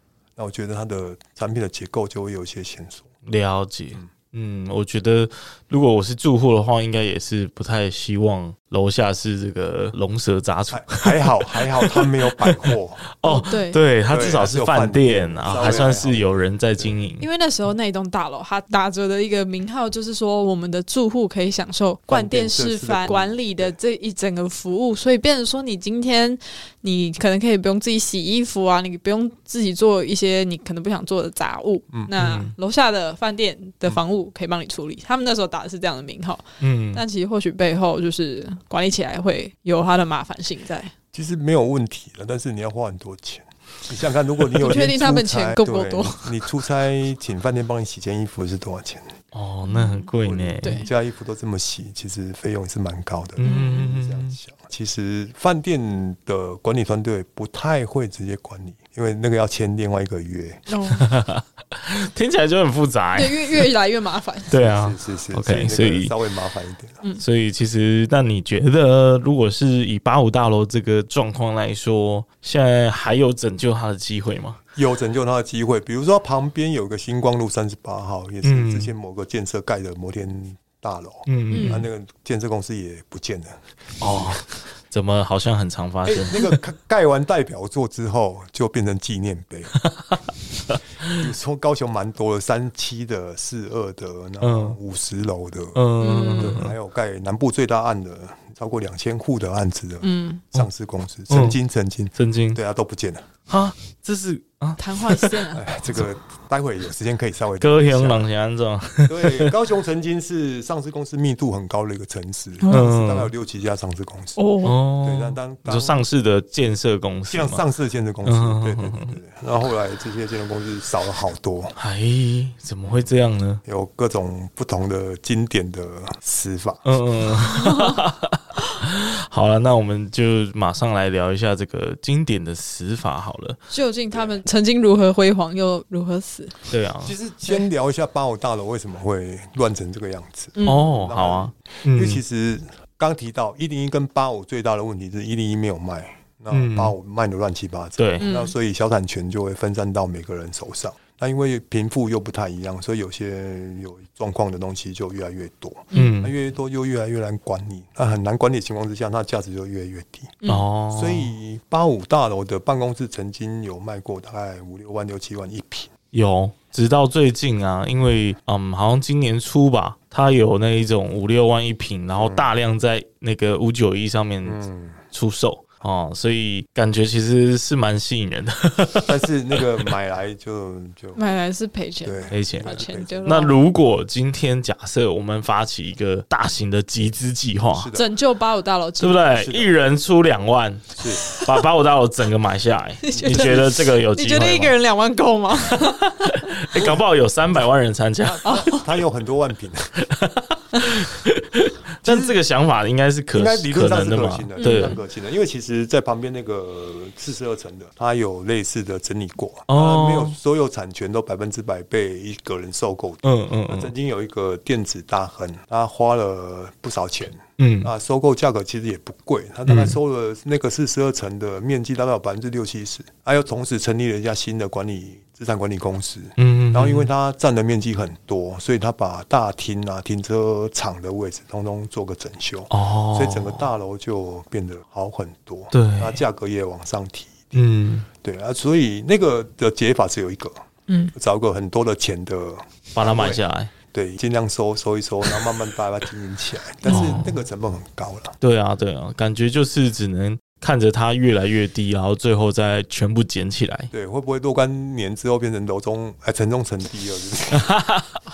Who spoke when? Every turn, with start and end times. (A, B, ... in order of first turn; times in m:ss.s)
0:00.4-0:03.1 A
0:03.2-0:17.2 B
0:10.7-0:13.0 A
0:13.2-0:13.8 C
0:14.1-0:16.9 A
0:17.2-0:40.9 C
0:22.1-0:23.7 A
0:32.2-0:32.5 B
0:36.6-0:37.0 B
0:41.1-0:49.1 A
0:44.5-0:46.5 C
0:49.3-0:50.8 B
0:49.7-0:50.1 C
0:50.2-1:00.6 A
0:50.6-0:50.9 C
0:53.4-0:54.4 B
0:53.4-0:53.8 C
1:00.7-1:01.0 C
1:00.9-1:03.6 B
1:03.1-1:04.5 C
1:04.5-1:06.1 B
1:04.6-1:07.0 A
1:07.2-1:14.6 B
1:14.8-1:24.4 A
1:18.4-1:18.9 B
1:21.3-1:21.8 B
1:21.5-1:21.8 C
1:24.0-1:26.6 B
1:26.0-1:29.8 A
1:29.8-1:31.2 B
1:31.0-1:43.3 A
1:34.4-1:34.8 B
1:35.7-1:36.7 B
1:36.0-1:36.6 C
1:40.0-1:40.4 C
1:41.3-1:41.6 B
1:42.1-1:42.6 B
1:43.5-1:45.4 B
1:44.8-1:45.6 C
1:45.5-1:48.3 A
1:47.6-1:49.5 B
1:49.1-1:54.4 A
1:52.6-1:52.9 C
1:52.7-1:53.3 B
1:54.4-1:54.7 C
1:54.6-1:57.6 B
1:55.0-1:56.0 A
1:57.3-2:01.7 A
1:58.2-1:59.2 B
2:01.8-2:03.6 B
2:03.6-2:06.9 A
2:06.8-2:13.6 B
2:07.4-2:08.0 C
2:13.7-2:16.6 C
2:14.1-2:14.4 A
2:16.7-2:17.1 B
2:17.0-2:40.4 A
2:20.6-2:20.9 C
2:20.6-2:22.2 B
2:26.5-2:26.9 B
2:28.0-2:28.3 B
2:28.2-2:28.5 C
2:35.9-2:36.2 C
2:35.9-2:36.3 B
2:40.5-2:41.3 B
2:40.9-2:45.9 A
2:46.1-2:59.6 B
2:52.1-2:52.5 A
2:54.4-2:55.0 A
2:59.0-3:01.2 A
3:01.1-3:03.6 C
3:02.0-3:03.5 A
3:02.3-3:07.9 B
3:07.7-3:08.1 A
3:07.9-3:09.2 C
3:09.0-3:14.7 B
3:09.3-3:09.8 A
3:11.0-3:11.3 A
3:13.0-3:16.5 C
3:13.1-3:13.7 A
3:15.7-3:18.5 B
3:16.7-3:17.0 A
3:18.2-3:19.9 A
3:18.4-3:18.8 C
3:20.0-3:25.0 B
3:22.0-3:22.4 A
3:23.3-3:57.6 A
3:24.6-3:25.0 C
3:29.7-3:30.4 B
3:33.2-3:33.9 B
3:37.6-3:37.9 B
3:39.7-3:40.0 B
3:46.4-3:47.1 B
3:52.7-3:53.6 B
3:55.7-3:56.2 B
3:57.5-3:58.1 B
3:58.1-4:00.6 A
4:00.9-4:01.1 C
4:01.1-4:08.4 A
4:02.9-4:03.7 B
4:06.8-4:07.2 C
4:06.9-4:07.4 B
4:08.4-4:13.9 B
4:13.9-4:17.7 A
4:17.5-4:18.2 B